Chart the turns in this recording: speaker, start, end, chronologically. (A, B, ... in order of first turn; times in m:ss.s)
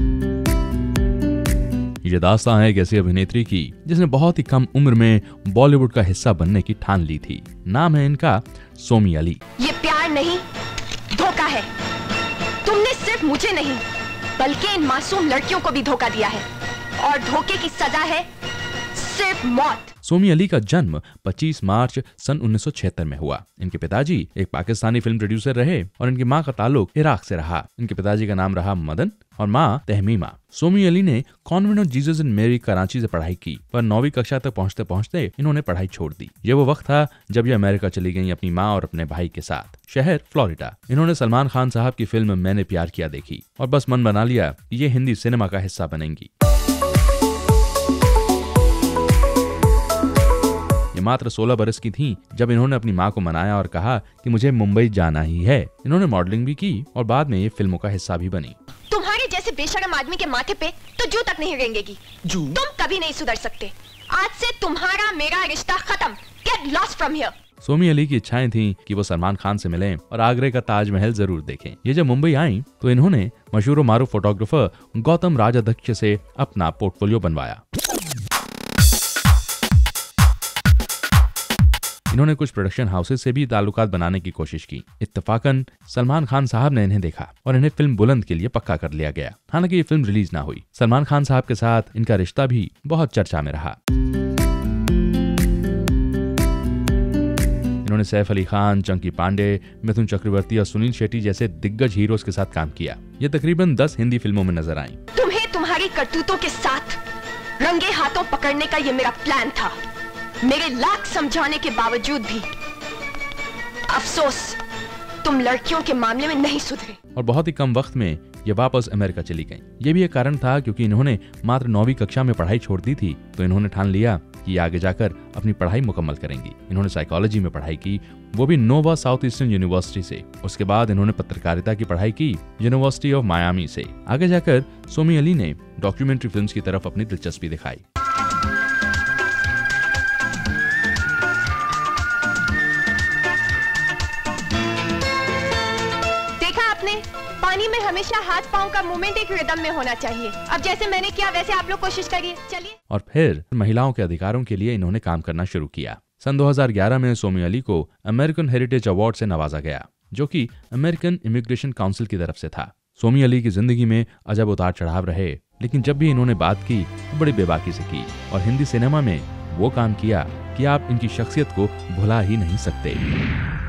0:02.0-0:09.4 A
0:09.6-0:10.5 B
0:11.1-0:11.7 B
0:12.6-0:13.8 B
0:14.4-0:16.5 B
0:17.0-0:18.3 B
0:18.9-0:19.9 B
0:20.0-0:46.3 A
0:50.9-0:58.6 A
0:58.9-1:07.3 B
1:07.6-1:17.6 A
1:22.1-1:33.8 A
1:37.8-1:45.0 A
1:45.2-1:47.0 B
1:47.6-1:49.8 B
1:50.4-1:52.5 B
1:53.9-1:54.6 B
1:55.2-1:57.0 B
1:57.2-2:17.8 A
2:26.4-2:32.8 B
2:32.9-2:53.0 A